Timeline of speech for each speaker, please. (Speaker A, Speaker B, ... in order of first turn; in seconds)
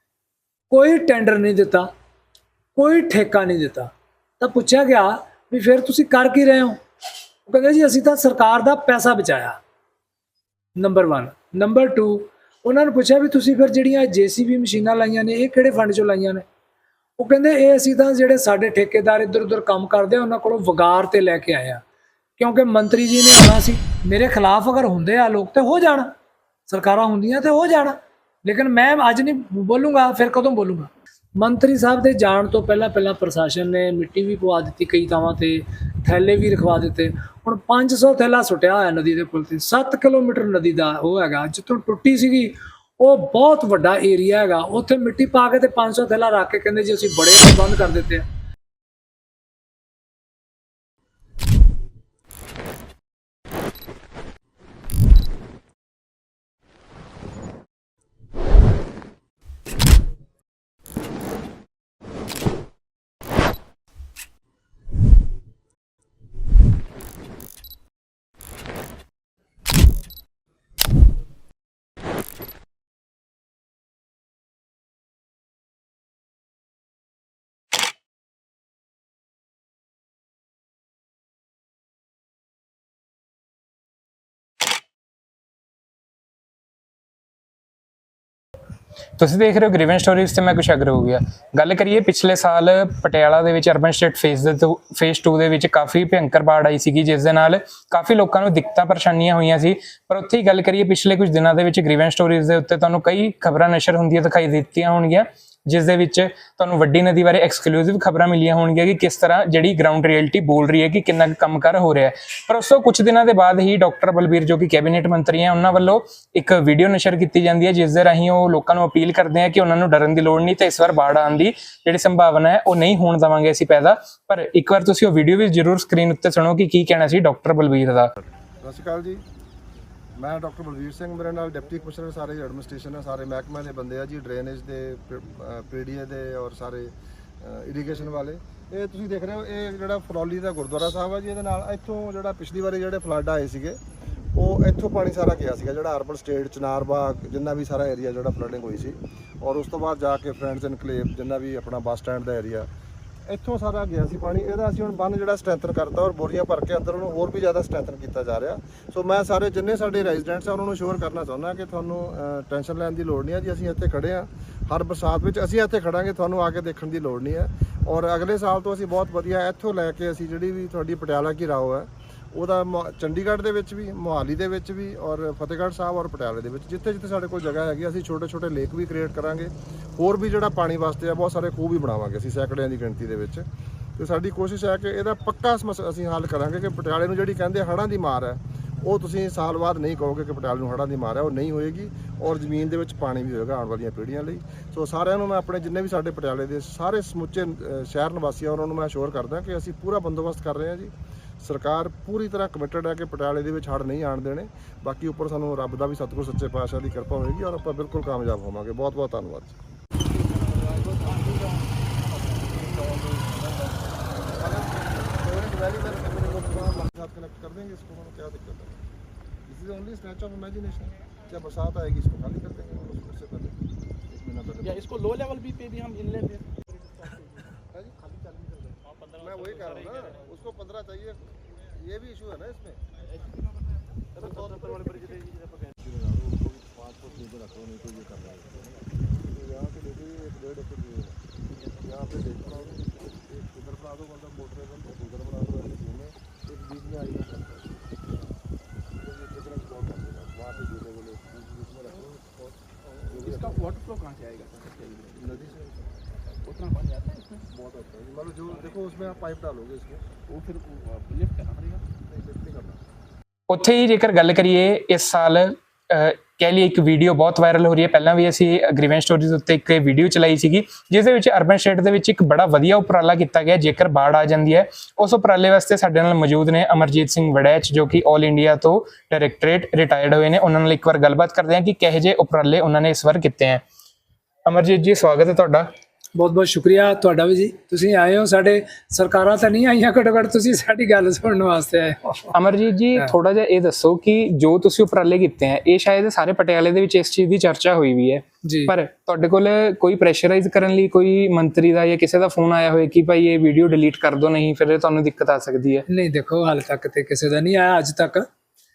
Speaker A: 0.7-1.9, 2.8-6.8, 7.5-9.6, 10.8-16.4, 17.2-21.8, 22.4-26.1, 26.7-48.2, 286.1-292.3, 298.4-298.7, 305.9-308.3
Speaker B: 89.2-128.1, 263.5-283.6, 284.4-285.7, 292.3-305.8
Speaker C: 128.6-129.2, 130.2-143.8, 144.3-152.7, 153.2-183.4, 183.9-209.6, 214.3-218.8, 219.4-224.8, 229.2-232.8, 234.2-241.2, 241.8-248.0, 248.9-253.6, 255.1-255.8, 257.5-260.1, 262.1-262.8
Speaker D: 210.0-213.9, 224.6-228.9, 233.0-235.4, 253.1-255.4, 256.4-257.5, 260.3-261.9